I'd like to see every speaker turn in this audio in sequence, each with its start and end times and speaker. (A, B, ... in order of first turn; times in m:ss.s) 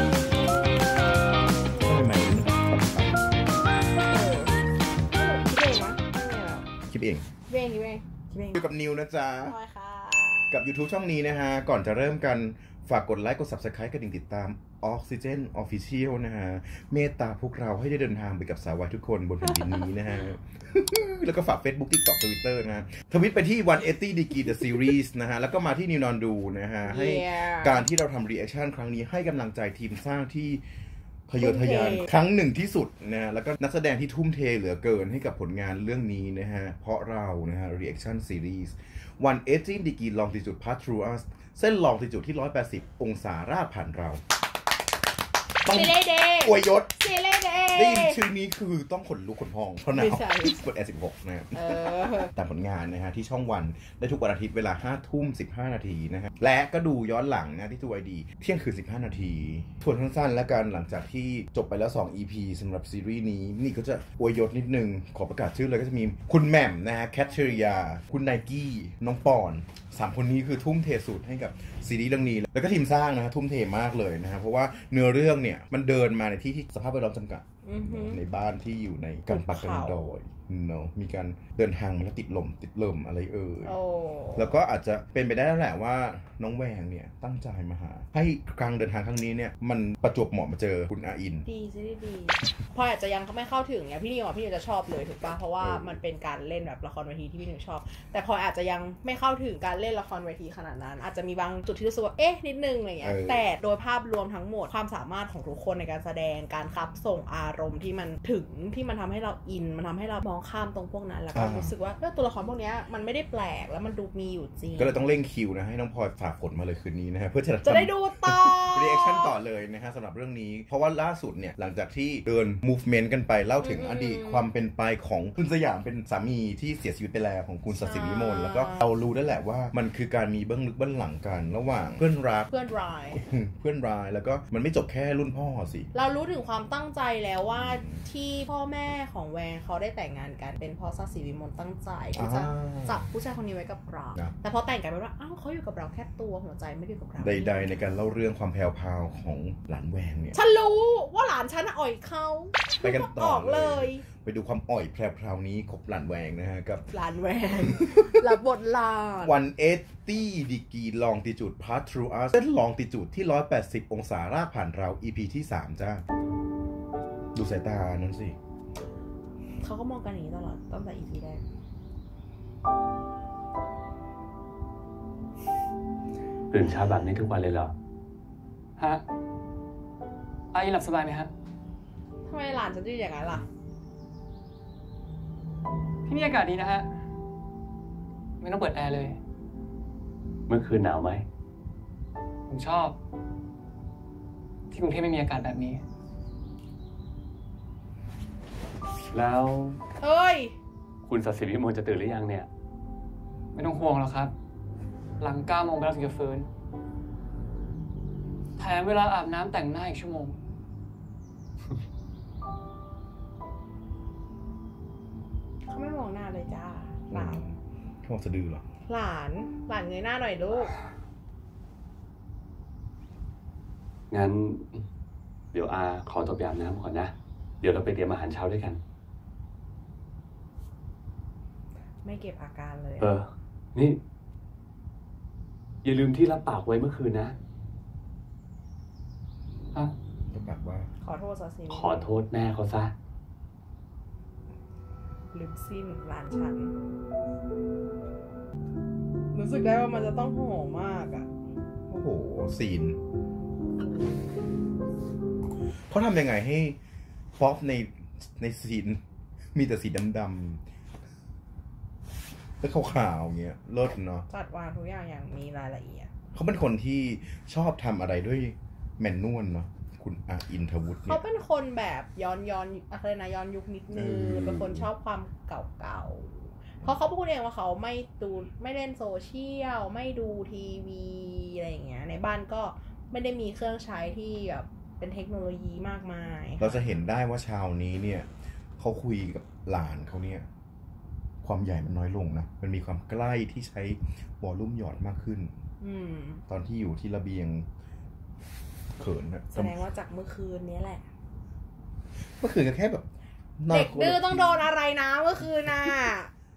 0:01.8-0:03.4 A
0:04.1-0:04.6 B
0:05.1-0:06.7 B
0:06.9-0:07.3 A
0:07.5-0:08.6 B
0:08.5-0:09.6 A
0:09.5-0:10.6 B
0:10.5-0:30.6 A
0:19.5-0:19.9 B
0:26.9-0:27.8 B
0:31.3-0:44.2 A
0:31.4-0:32.1 B
0:45.6-0:46.9 A
0:45.7-0:48.2 B
0:47.8-1:23.8 A
0:49.9-0:50.6 B
0:51.5-0:52.3 B
1:17.6-1:18.2 B
1:19.3-1:20.0 B
1:23.6-1:24.5 B
1:24.4-1:31.5 A
1:31.5-1:55.0 B
1:35.6-1:36.0 A
1:43.0-1:43.4 A
1:51.3-1:51.7 A
1:54.8-2:12.5 A
1:57.6-1:59.3 B
2:03.6-2:04.4 B
2:07.8-2:08.8 B
2:12.5-2:13.2 B
2:13.2-2:15.9 A
2:15.9-2:27.7 B
2:17.6-2:18.0 A
2:22.2-2:23.0 A
2:27.2-2:30.4 A
2:30.3-2:34.0 B
2:32.8-2:36.9 A
2:36.9-2:39.3 B
2:37.7-2:38.2 A
2:39.2-2:46.0 A
2:47.4-2:48.4 A
2:49.6-2:51.4 B
2:56.5-2:57.7 C
2:58.8-2:59.0 D
3:00.5-3:01.3 D
3:02.3-3:03.5 B
3:06.1-3:06.9 D
3:08.4-3:09.2 D
3:10.5-3:11.3 C
3:12.5-3:13.0 D
3:14.7-3:15.8 D
3:19.1-3:19.8 C
3:20.0-3:20.6 B
3:21.0-3:22.5 C
3:23.5-3:24.3 D
3:25.2-3:26.5 D
3:28.6-3:30.4 D
3:35.7-3:37.4 B
3:37.1-3:38.6 A
3:38.9-3:40.7 B
3:44.1-3:44.8 C
3:45.5-3:48.8 C
3:52.0-3:53.1 B
3:53.0-3:54.0 C
3:55.8-3:57.4 C
4:00.3-4:00.9 A
4:01.0-4:02.1 B
4:01.7-4:03.0 C
4:05.3-4:06.7 B
4:09.3-4:11.3 B
4:11.9-4:13.0 A
4:15.9-4:16.8 A
4:17.4-4:19.0 A
4:19.5-4:20.6 A
4:22.6-4:24.3 A
4:24.3-4:26.1 B
4:26.3-4:31.2 A
4:31.0-4:47.0 B
4:33.9-4:34.9 A
4:46.6-4:50.5 A
4:51.4-4:55.5 A
4:55.8-4:56.4 B
4:56.5-4:57.7 A
4:59.0-4:59.8 A
4:59.5-5:01.1 B
5:02.4-5:04.7 A
5:03.7-5:06.3 B